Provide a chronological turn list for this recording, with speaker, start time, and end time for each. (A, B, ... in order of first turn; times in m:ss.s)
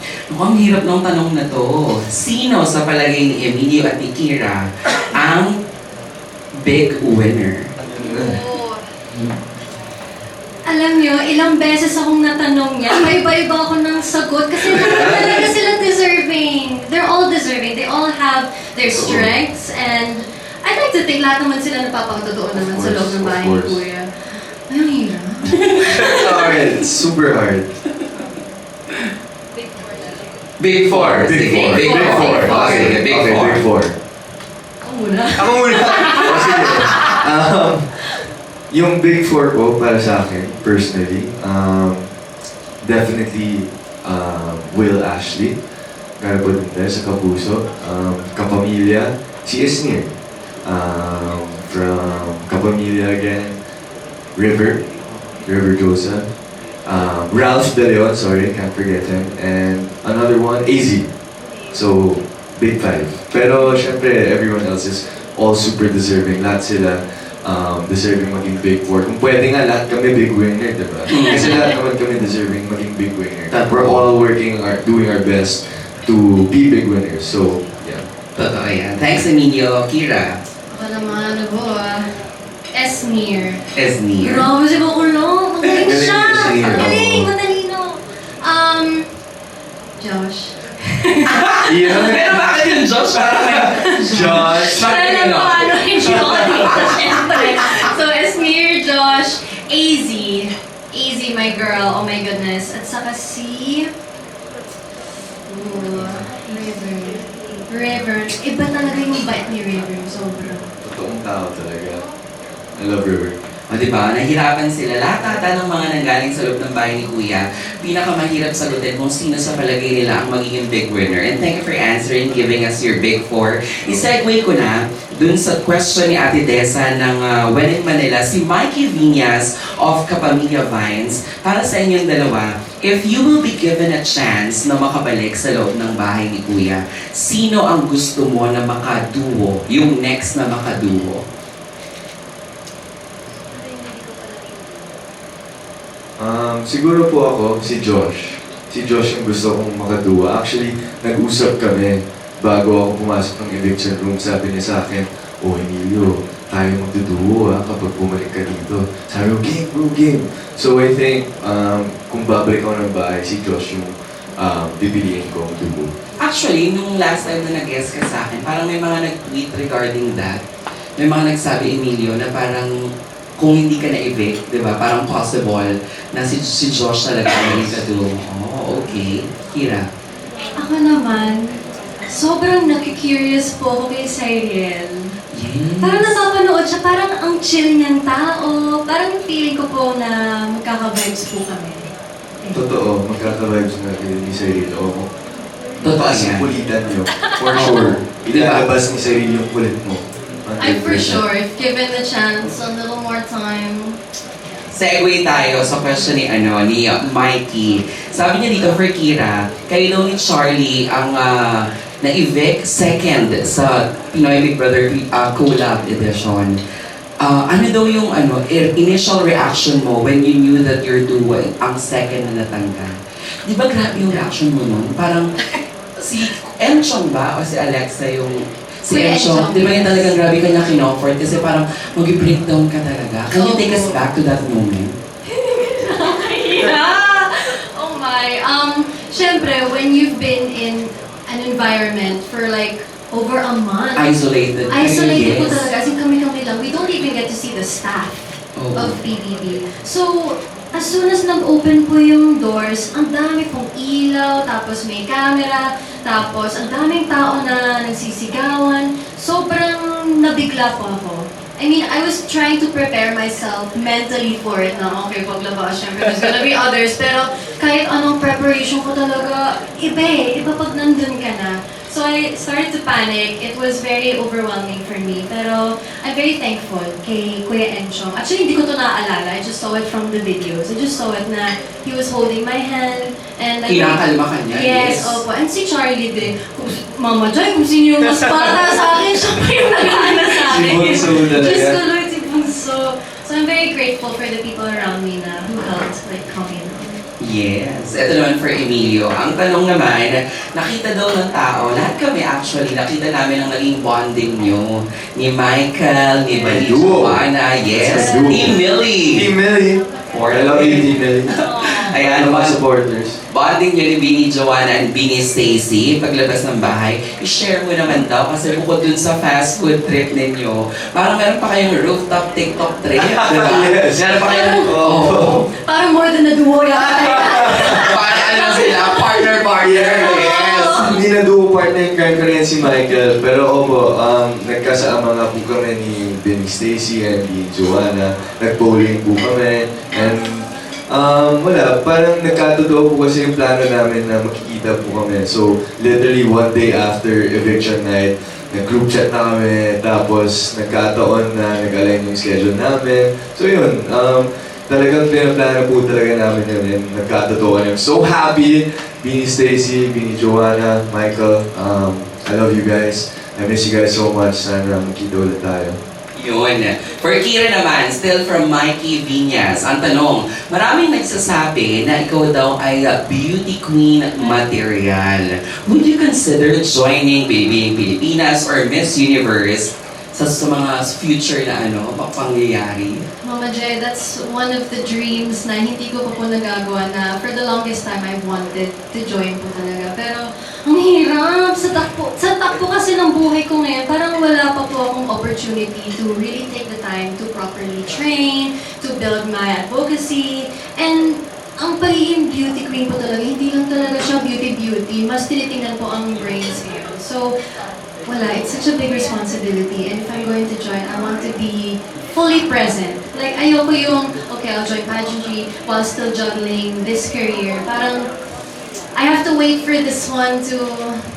0:00.3-0:05.6 A
0:06.6-0:07.7 A
0:07.8-0:08.4 B
0:08.0-0:08.8 C
0:10.7-0:24.1 C
0:14.6-0:15.5 B
0:18.8-0:19.3 B
0:22.5-0:23.8 B
0:24.7-0:26.3 C
0:25.5-0:26.5 A
0:26.0-0:27.7 B
0:29.7-0:30.1 C
0:30.6-0:33.6 A
0:30.9-0:33.9 B
0:31.5-0:33.0 C
0:34.8-0:37.2 C
0:35.4-0:37.8 B
0:38.7-0:42.1 B
0:42.8-0:45.6 B
0:46.2-0:50.1 B
0:50.6-0:53.6 B
0:54.4-0:54.8 B
0:55.4-0:56.2 B
0:56.8-1:01.1 B
1:01.7-1:18.0 B
1:11.1-1:11.6 A
1:13.5-1:14.0 A
1:18.4-1:20.4 A
1:20.7-1:22.0 C
1:22.7-1:23.6 C
1:23.7-1:24.5 A
1:24.2-1:29.1 C
1:25.8-1:27.3 B
1:26.5-1:26.8 A
1:30.0-1:31.9 C
1:31.3-1:37.0 A
1:31.6-1:32.4 B
1:33.4-1:35.0 B
1:33.7-1:43.9 C
1:36.1-1:36.9 B
1:45.5-1:50.6 C
1:50.8-1:52.0 B
1:52.8-1:53.3 B
1:53.7-2:21.2 A
2:23.5-2:25.0 C
2:26.2-2:45.9 B
2:46.2-2:50.4 A
2:51.0-2:52.7 A
2:53.4-2:59.9 A
3:00.6-3:05.2 C
3:05.3-3:06.1 A
3:05.8-3:11.8 C
3:12.5-3:15.1 B
3:15.8-3:16.5 A
3:15.8-3:21.2 B
3:17.3-3:17.8 C
3:17.5-3:18.6 A
3:20.6-3:24.0 C
3:24.7-3:36.6 A
3:37.2-3:43.0 A
3:43.5-3:45.3 A
3:46.0-3:54.9 A
3:48.9-3:50.1 C
3:53.3-3:54.0 C
3:55.2-4:04.1 C
4:04.0-4:05.7 A
4:04.7-4:56.9 C
4:08.6-4:09.0 A
4:43.7-4:45.2 A
4:50.4-4:51.8 B
4:57.2-5:09.3 A
5:06.4-5:11.4 B
5:10.1-5:12.6 A
5:12.0-5:13.2 B
5:13.3-5:25.4 A
5:23.0-5:24.1 B
5:24.2-5:24.7 C
5:24.6-5:25.4 B
5:25.6-5:29.3 C
5:26.8-5:28.1 B
5:27.8-5:30.9 A
5:29.6-6:05.8 B
5:30.0-5:31.0 C
6:06.2-6:23.1 A
6:23.2-6:47.3 C
6:48.0-6:58.1 C
6:59.0-7:01.0 C